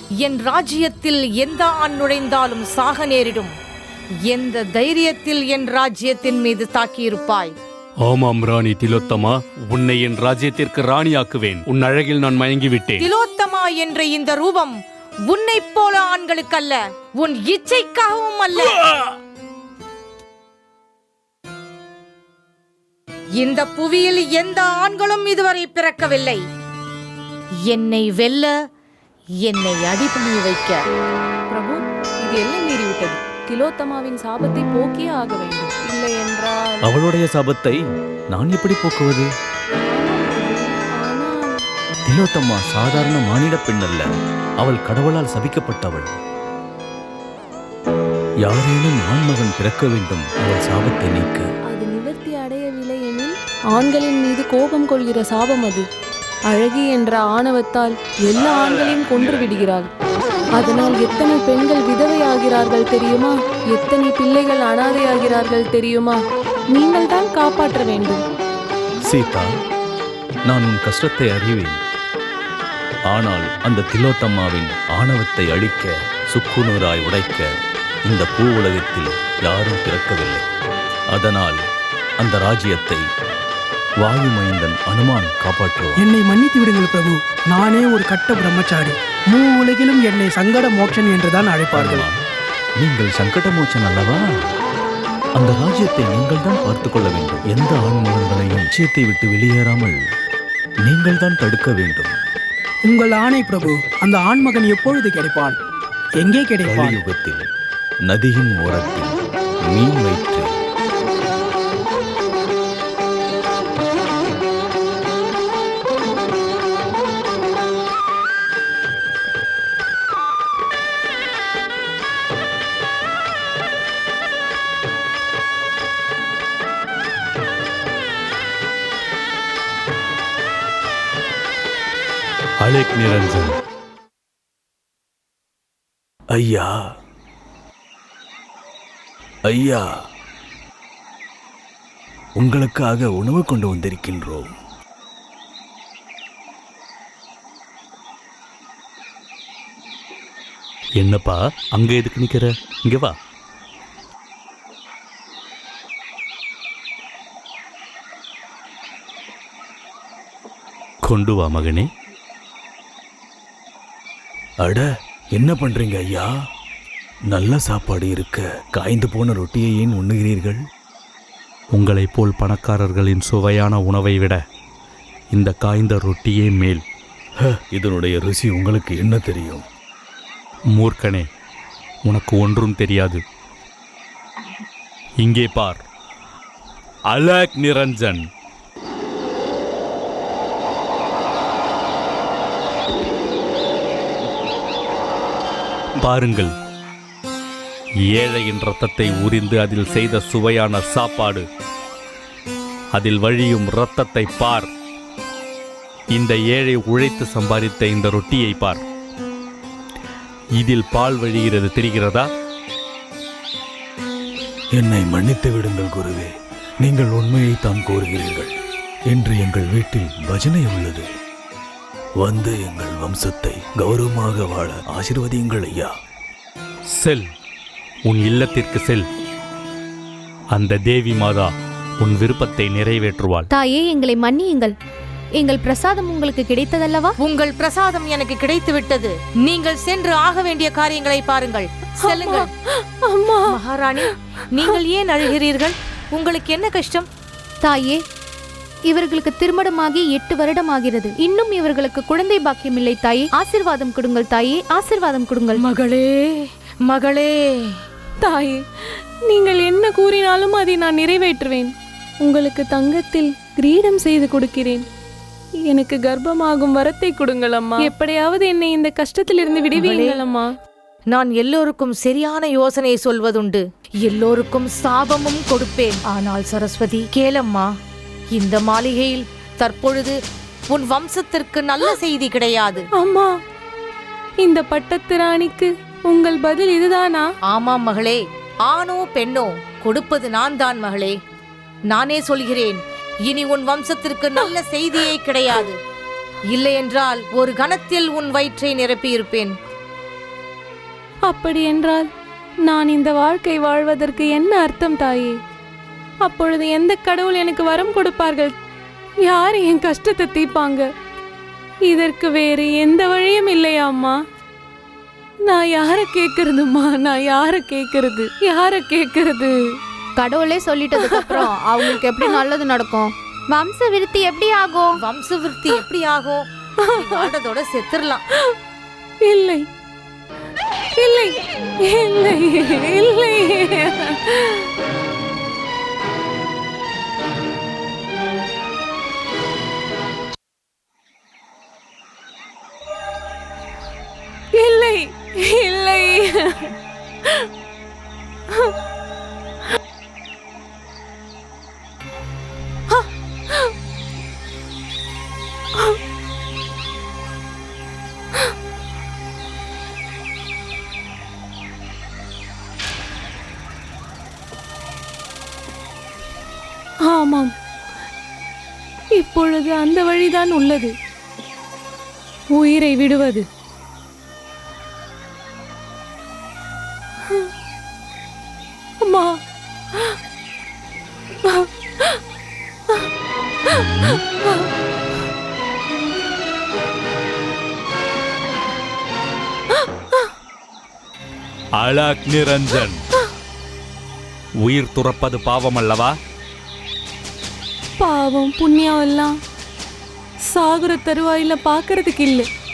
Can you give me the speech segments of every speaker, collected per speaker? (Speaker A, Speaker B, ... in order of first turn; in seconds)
Speaker A: 0.2-3.5, 4.3-7.5, 13.0-14.8, 15.3-19.1, 23.4-26.4, 27.7-28.5, 29.4-30.8, 237.2-242.5, 243.5-247.1, 255.5-257.7, 269.7-270.2, 271.1-277.7, 278.3-280.2, 280.7-282.9, 287.5-291.1, 291.9-295.8, 296.5-299.6, 325.0-328.2
Speaker B: 8.1-13.1, 132.6-133.6, 151.0-153.1, 161.0-161.9, 171.8-174.4, 175.3-176.8, 180.8-181.2, 182.1-183.2, 185.2-185.8, 187.1-188.2, 196.0-196.5, 198.1-201.4, 203.0-204.7, 206.2-208.8, 210.6-212.3, 228.1-229.1, 230.6-231.5, 232.0-233.4, 383.8-384.2, 391.8-393.0, 394.6-396.1
Speaker C: 31.5-36.9, 39.9-41.5, 51.7-55.9, 56.5-59.9, 60.6-66.2, 66.7-68.2, 242.0-242.5, 243.0-243.6, 258.2-258.6, 259.3-264.8, 265.7-270.5, 283.0-283.3, 284.4-287.2, 301.3-302.1, 302.6-305.4, 306.2-308.6, 309.2-310.9, 311.9-314.1, 315.5-319.6, 321.0-322.4, 326.8-327.3, 329.2-329.7, 331.0-334.7, 344.6-346.7, 367.1-367.5, 369.2-370.9, 372.6-373.4, 379.0-379.4, 381.4-382.2, 398.0-399.3, 400.5-402.5
Speaker D: 36.8-39.3, 42.1-44.1, 44.6-46.1, 48.5-51.5, 69.1-69.5, 70.5-71.8, 73.1-77.5, 78.1-80.4, 81.1-81.6, 82.2-83.0, 84.0-86.0, 91.8-92.2, 92.8-94.2, 95.4-100.0, 100.9-102.1, 106.6-107.4, 108.1-109.2, 109.7-110.5, 136.3-136.7, 139.5-139.9, 142.4-144.5, 164.6-166.3, 167.3-170.6, 177.4-179.6, 214.8-216.3, 216.8-218.5, 219.1-221.1, 222.2-225.9
Speaker E: 86.0-92.0, 102.9-105.6, 106.2-107.0
Speaker F: 233.5-234.8, 235.4-237.2, 247.6-248.0, 248.9-255.6, 320.2-325.0